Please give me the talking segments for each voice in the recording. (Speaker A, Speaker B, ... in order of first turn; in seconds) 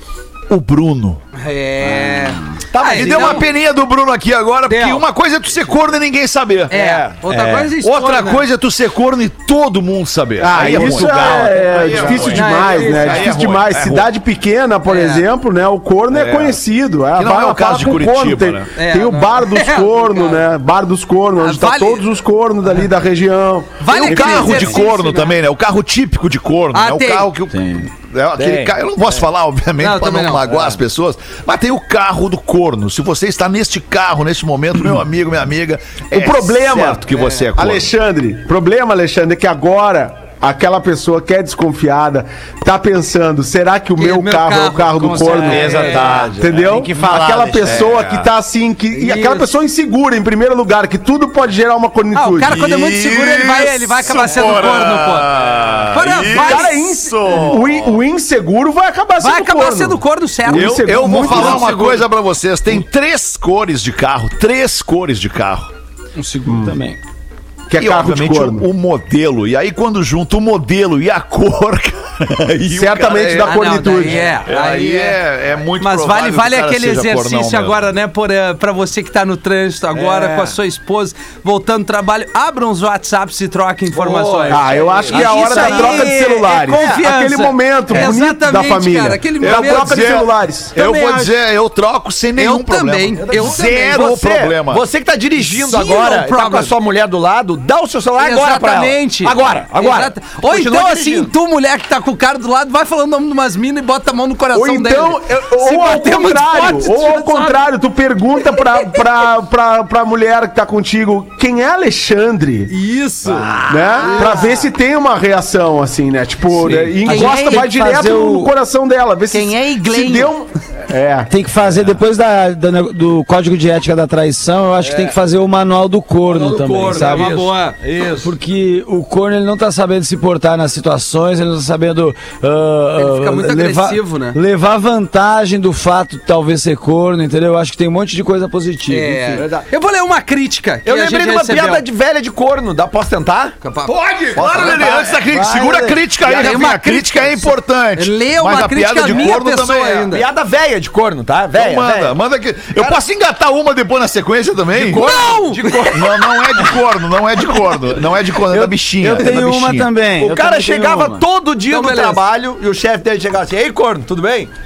Speaker A: 0.5-1.2, 2.8-6.8, 7.3-14.1, 16.1-16.6, 17.1-18.7, 23.9-37.9, 47.6-48.3, 52.5-58.0, 60.5-65.7, 67.7-73.8, 74.4-77.9, 89.4-94.8, 143.9-150.1, 151.5-155.1, 155.9-159.9
Speaker B: 1.3-3.5, 4.7-5.0, 6.7-8.4, 12.1-13.3, 14.8-15.2, 18.7-20.4, 21.4-22.0, 23.8-25.3, 26.7-27.3, 29.8-30.6, 44.0-46.3, 48.9-49.5, 52.1-55.3, 55.9-56.9, 59.2-62.0, 73.3-75.2, 75.8-90.2, 90.8-91.3, 92.4-94.0, 95.4-96.7, 98.2-107.7, 112.7-114.6, 117.0-117.7, 119.3-120.3, 126.9-127.8, 132.9-134.4, 138.9-141.8, 143.6-144.6, 146.2-150.2, 155.0-155.9, 161.7-162.2
Speaker C: 2.7-3.5, 6.7-7.5, 28.4-28.9, 46.0-46.3, 74.0-74.4, 79.9-80.6, 83.9-86.1, 86.7-87.0, 93.1-101.3, 124.8-125.1, 126.2-128.3, 139.3-139.7, 140.8-143.6, 144.3-145.2, 146.2-146.7, 150.1-152.1, 154.7-156.7, 160.2-164.5
Speaker D: 10.4-24.9, 36.1-52.6, 56.2-61.8, 66.5-66.8, 67.7-68.7, 72.7-74.3, 84.5-90.8, 104.5-112.7, 113.7-121.3
Speaker E: 10.6-12.1, 27.5-27.9, 45.0-47.9, 66.2-67.0, 85.2-86.1, 116.7-118.5, 121.3-127.4, 128.2-139.4, 145.1-146.0, 158.5-161.2